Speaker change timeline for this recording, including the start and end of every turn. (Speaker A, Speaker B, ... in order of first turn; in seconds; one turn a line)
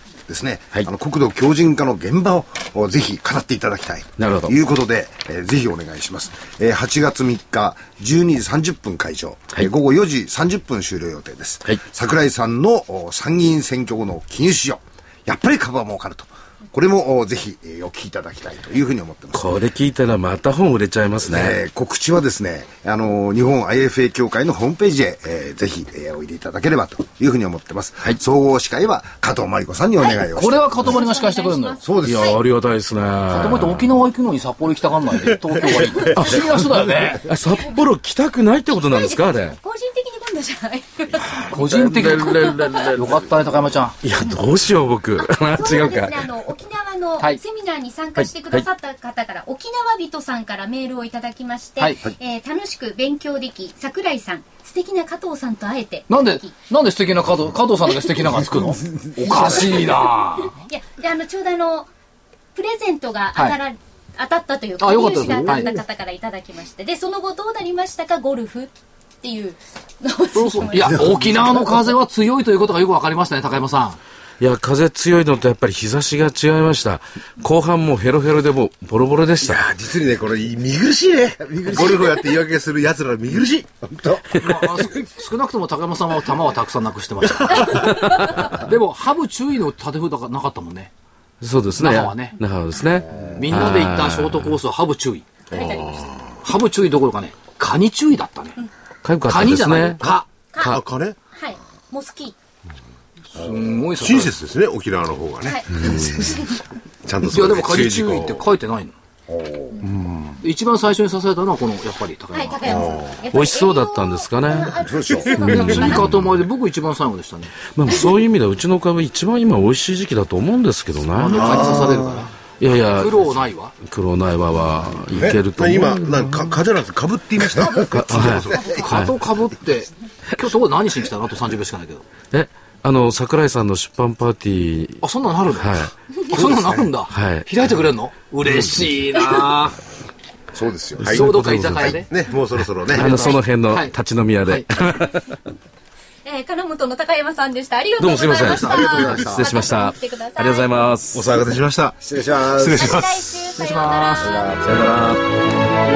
Speaker A: 0.3-19.5
Speaker B: 4.2-4.5
Speaker B: 19.3-21.6
Speaker A: 21.2-30.7
Speaker C: 30.0-32.4
Speaker D: 30.2-31.8
Speaker A: 31.8-32.4
Speaker B: 32.0-33.9
Speaker D: 33.3-37.3
Speaker C: 35.9-36.2
Speaker B: 36.1-39.6
Speaker C: 37.5-37.8
Speaker C: 38.7-41.5
Speaker B: 41.3-43.2
Speaker D: 41.5-44.0
Speaker C: 42.0-42.9
Speaker B: 44.0-46.3
Speaker C: 45.2-56.5
Speaker B: 48.2-48.6
Speaker D: 56.1-60.6
Speaker A: 58.6-59.8
Speaker C: 60.4-61.9
Speaker C: 62.5-68.7
Speaker D: 64.8-65.8
Speaker C: 69.2-71.1
Speaker D: 70.3-74.0
Speaker B: 74.4-79.6
Speaker E: 79.4-83.9
Speaker A: 81.4-82.2
Speaker A: 83.9-84.2
Speaker D: 84.4-90.9
Speaker C: 87.7-88.4
Speaker B: 91.4-94.6
Speaker D: 91.8-92.4
Speaker A: 93.1-93.7
Speaker D: 93.3-95.7
Speaker C: 95.5-96.1
Speaker E: 95.5-96.2
Speaker D: 96.4-98.6
Speaker B: 99.0-100.8
Speaker D: 99.2-100.3
Speaker C: 100.5-100.8
Speaker E: 100.6-101.2
Speaker C: 101.3-102.3
Speaker D: 103.3-104.3
Speaker E: 104.0-106.3
Speaker C: 105.4-106.6
Speaker E: 107.0-108.5
Speaker D: 107.3-108.9
Speaker A: 109.3-109.8
Speaker E: 109.8-110.4
Speaker D: 110.4-113.0
Speaker C: 112.3-116.1
Speaker E: 112.6-113.2
Speaker B: 113.3-114.8
Speaker A: 114.7-115.5
Speaker B: 115.3-116.2
Speaker D: 115.4-117.7
Speaker B: 117.7-122.0
Speaker D: 121.2-123.8
Speaker B: 122.6-126.5
Speaker E: 125.2-128.8
Speaker A: 127.5-128.7
Speaker B: 127.9-129.1
Speaker D: 128.2-132.1
Speaker B: 132.3-135.9
Speaker D: 135.0-139.8
Speaker A: 136.3-136.8
Speaker B: 137.1-137.5
Speaker C: 139.1-139.4
Speaker A: 140.5-141.3
Speaker B: 141.0-142.0
Speaker D: 141.0-142.1
Speaker E: 141.9-143.2
Speaker B: 142.8-145.4
Speaker D: 142.9-143.9
Speaker D: 144.4-144.8
Speaker C: 146.2-150.8
Speaker B: 148.0-151.3
Speaker D: 148.4-148.9
Speaker A: 148.4-149.5
Speaker E: 151.1-153.3
Speaker A: 152.0-153.1
Speaker C: 152.7-154.6
Speaker D: 153.5-154.6
Speaker B: 154.6-155.2